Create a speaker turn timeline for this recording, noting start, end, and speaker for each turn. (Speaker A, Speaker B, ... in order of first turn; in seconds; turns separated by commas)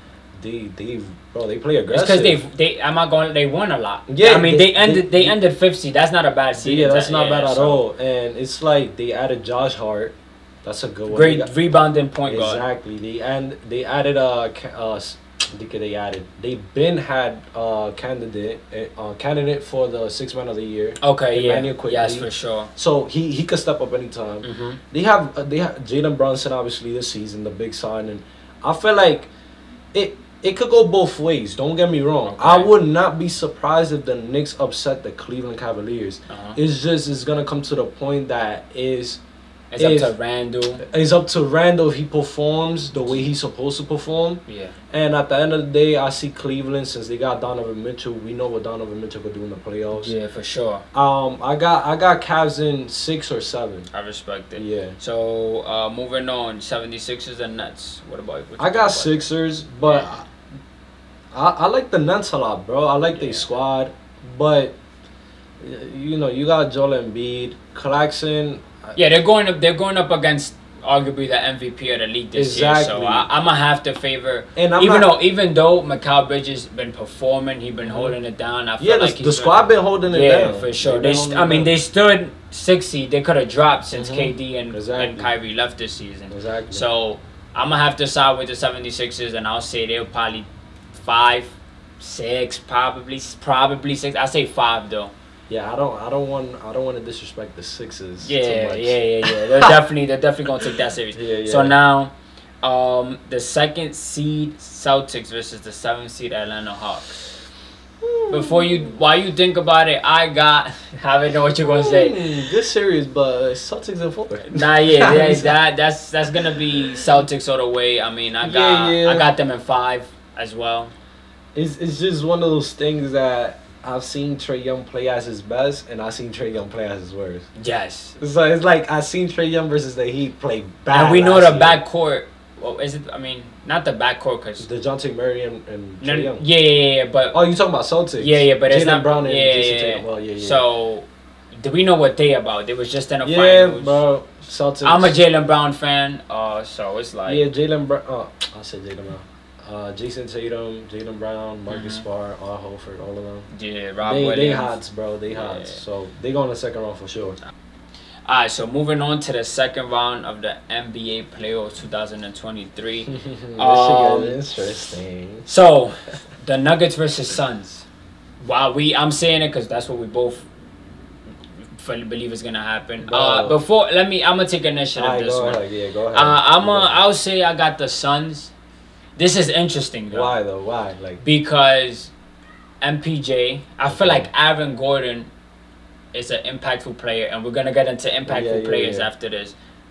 Speaker A: 0.4-2.4, Speaker B: 1.9-7.8, Speaker A: 4.1-5.4, Speaker A: 6.6-11.5, Speaker B: 11.1-12.6, Speaker A: 12.3-29.3, Speaker B: 21.0-22.7, Speaker B: 24.4-24.8, Speaker A: 29.9-39.2, Speaker B: 32.3-32.7, Speaker B: 36.3-36.6, Speaker B: 39.7-40.8, Speaker A: 39.8-40.1, Speaker A: 40.8-50.1, Speaker B: 44.5-44.8, Speaker B: 49.9-50.9, Speaker A: 50.9-53.9, Speaker B: 53.9-59.2, Speaker A: 54.6-55.0, Speaker A: 58.6-60.3, Speaker A: 61.3-64.8, Speaker B: 63.1-63.5, Speaker A: 65.6-69.0, Speaker B: 69.0-95.1, Speaker A: 72.3-73.3, Speaker A: 74.6-75.1, Speaker A: 77.8-78.2, Speaker A: 78.8-81.7, Speaker A: 83.9-85.3, Speaker A: 86.3-86.8, Speaker A: 95.5-99.7, Speaker B: 98.2-107.2, Speaker A: 101.1-101.8, Speaker A: 108.0-108.9, Speaker B: 108.3-112.3, Speaker A: 111.6-115.6, Speaker B: 114.4-120.9, Speaker A: 118.4-119.3, Speaker A: 121.5-127.5, Speaker B: 127.6-128.2, Speaker A: 128.2-131.8, Speaker B: 130.9-134.7, Speaker A: 134.6-136.4, Speaker B: 136.0-137.4, Speaker A: 137.3-140.6, Speaker B: 138.2-144.0, Speaker A: 143.2-145.2, Speaker B: 144.8-147.5, Speaker A: 147.3-153.5, Speaker B: 151.7-152.1, Speaker B: 153.5-154.8, Speaker A: 154.0-157.4, Speaker B: 155.3-155.8, Speaker B: 158.3-164.4, Speaker A: 163.1-165.5, Speaker B: 165.5-167.9, Speaker B: 168.4-170.5, Speaker B: 171.8-175.6, Speaker A: 173.0-173.6, Speaker A: 175.0-177.0, Speaker B: 176.1-178.5, Speaker B: 179.2-180.3, Speaker A: 180.1-181.2, Speaker B: 181.2-182.1, Speaker B: 182.8-185.3, Speaker A: 183.9-184.3, Speaker B: 186.1-189.6, Speaker A: 188.3-189.1